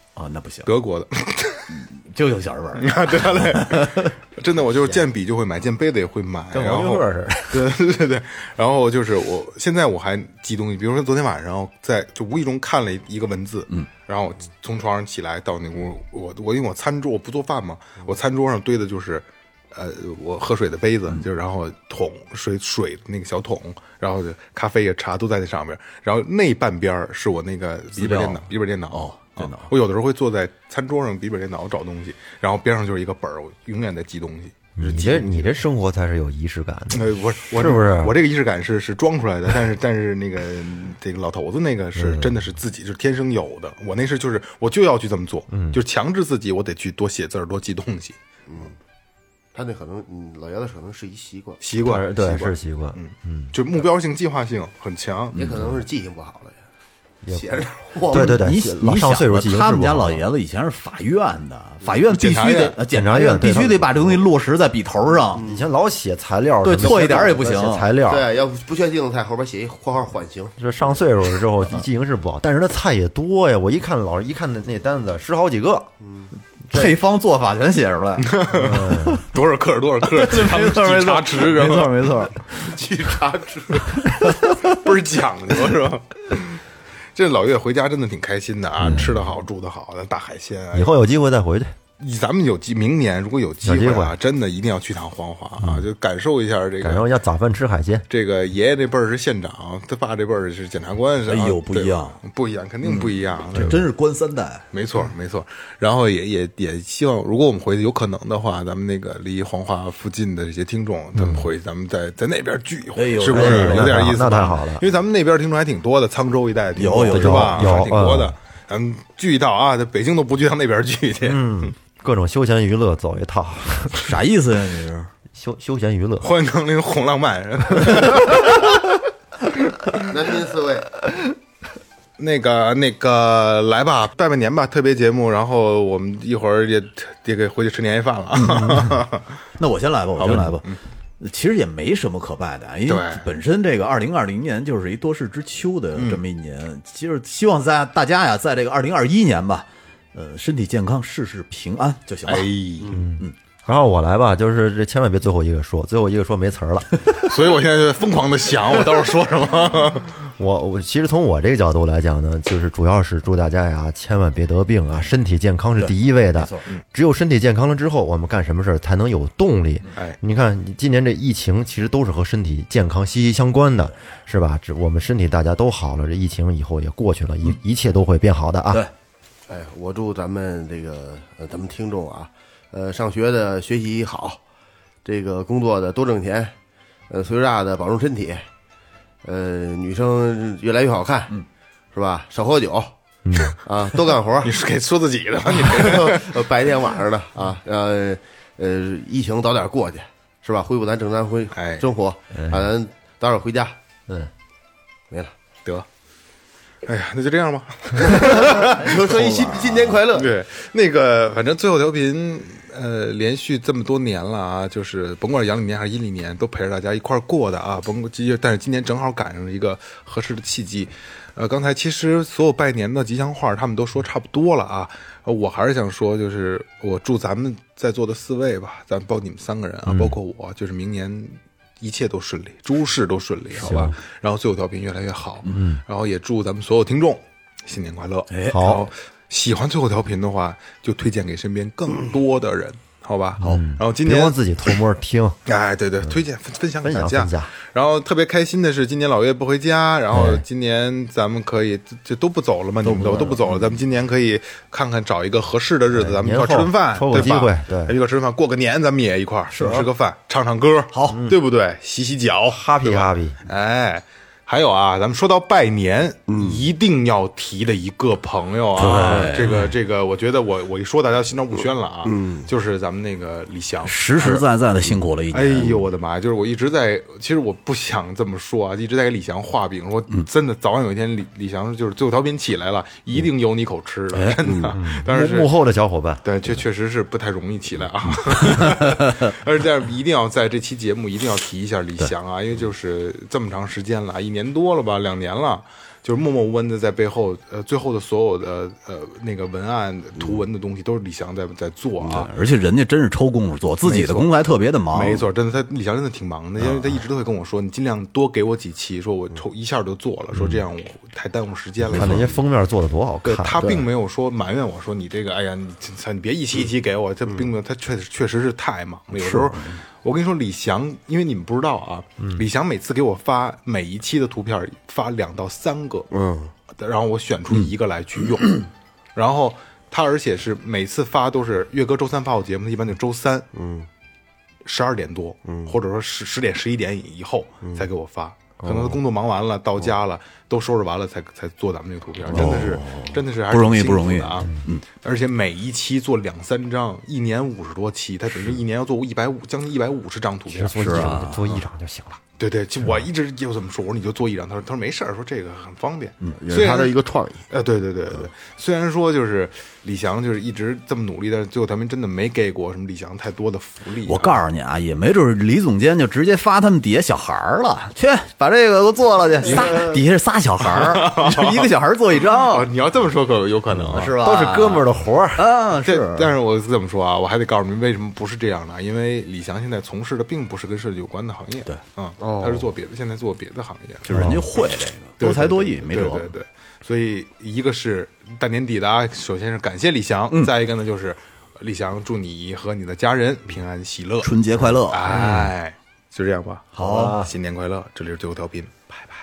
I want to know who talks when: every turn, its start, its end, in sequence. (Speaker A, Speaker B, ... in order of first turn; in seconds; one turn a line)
Speaker A: 0.1-0.7
Speaker B: 0.7-1.7
Speaker A: 1.7-4.1
Speaker B: 2.8-35.5
Speaker C: 6.5-7.7
Speaker A: 27.9-29.7
Speaker C: 34.8-38.1
Speaker B: 36.9-48.2
Speaker C: 42.0-42.4
Speaker C: 45.5-45.8
Speaker D: 48.5-48.8
Speaker D: 49.5-51.6
Speaker B: 51.6-55.4
Speaker C: 51.8-53.5
Speaker D: 55.3-56.6
Speaker C: 55.4-55.7
Speaker C: 57.2-60.2
Speaker D: 57.3-58.5
Speaker A: 58.1-65.4
Speaker B: 62.1-62.8
Speaker C: 62.9-64.2
Speaker D: 65.3-65.7
Speaker C: 65.4-68.3
Speaker A: 66.6-67.9
Speaker D: 68.1-70.6
Speaker C: 70.6-75.9
Speaker D: 76.0-76.3
Speaker A: 76.7-79.1
Speaker B: 78.2-82.0
Speaker C: 78.5-79.2
Speaker A: 80.0-82.6
Speaker D: 82.5-84.2
Speaker B: 84.1-86.6
Speaker A: 84.2-84.5
Speaker B: 87.1-91.0
Speaker C: 88.8-89.2
Speaker C: 90.7-91.7
Speaker B: 92.0-97.1
Speaker C: 93.6-94.2
Speaker C: 96.8-98.1
Speaker B: 98.1-103.8
Speaker A: 101.3-102.2
Speaker A: 102.8-104.7
Speaker C: 103.5-103.8
Speaker B: 104.7-121.7
Speaker C: 111.2-111.4
Speaker A: 112.9-114.1
Speaker C: 113.3-114.8
Speaker A: 116.8-117.8
Speaker C: 117.0-118.3
Speaker C: 121.2-124.1
Speaker A: 124.0-125.1
Speaker C: 125.3-126.3
Speaker B: 126.2-128.8
Speaker D: 130.0-130.9
Speaker B: 132.2-139.2
Speaker A: 138.3-139.0
Speaker A: 139.6-140.7
Speaker B: 140.2-140.8
Speaker A: 141.2-152.5
Speaker B: 142.9-143.2
Speaker B: 145.9-146.2
Speaker B: 152.3-152.9
Speaker C: 152.9-156.9
Speaker B: 157.2-160.1
Speaker C: 160.4-178.8
Speaker A: 166.4-166.7
Speaker D: 179.5-184.4
Speaker D: 185.0-186.5
Speaker D: 187.1-188.4
Speaker D: 189.2-191.4
Speaker D: 191.9-192.9
Speaker C: 193.2-193.6
Speaker D: 193.5-194.5
Speaker B: 194.4-196.4
Speaker D: 195.6-203.8
Speaker B: 201.5-201.9
Speaker C: 202.3-202.7
Speaker B: 206.8-208.8
Speaker D: 208.0-210.3
Speaker A: 208.2-210.0
Speaker B: 210.1-244.4
Speaker C: 233.6-233.9
Speaker C: 235.5-235.8
Speaker A: 238.3-238.7
Speaker C: 238.5-238.9
Speaker C: 243.4-245.4
Speaker B: 245.4-274.4
Speaker C: 246.8-247.5
Speaker C: 250.1-250.4
Speaker A: 252.8-253.6
Speaker C: 255.9-257.9
Speaker A: 259.5-259.9
Speaker A: 260.9-261.2
Speaker C: 262.5-263.4
Speaker D: 266.3-266.6
Speaker A: 268.8-269.7
Speaker D: 272.1-272.5
Speaker A: 273.8-275.8
Speaker B: 275.3-285.6
Speaker A: 284.1-284.6
Speaker D: 284.4-284.8
Speaker C: 284.7-286.2
Speaker B: 286.2-302.3
Speaker A: 288.9-289.2
Speaker A: 302.1-305.2
Speaker B: 303.8-304.3
Speaker B: 304.9-312.3
Speaker C: 311.9-313.8
Speaker A: 311.9-312.2
Speaker B: 313.2-326.1
Speaker D: 326.1-326.5
Speaker B: 326.8-328.6
Speaker B: 329.1-333.5
Speaker D: 333.5-333.9
Speaker B: 334.6-351.6
Speaker D: 335.5-335.7
Speaker A: 342.3-344.8
Speaker C: 350.5-352.2
Speaker A: 350.7-351.4
Speaker B: 352.4-356.9
Speaker D: 356.4-357.4
Speaker B: 357.5-364.4
Speaker A: 364.0-372.7
Speaker B: 369.5-369.9
Speaker B: 370.7-371.7
Speaker B: 372.3-374.1
Speaker A: 373.8-376.3
Speaker C: 374.1-375.4
Speaker B: 375.8-384.4
Speaker D: 382.2-382.7
Speaker A: 384.1-386.3
Speaker C: 384.1-384.4
Speaker B: 385.2-394.3
Speaker A: 394.2-395.3
Speaker B: 394.9-398.9
Speaker C: 395.1-395.5
Speaker A: 396.7-397.2
Speaker C: 396.8-397.3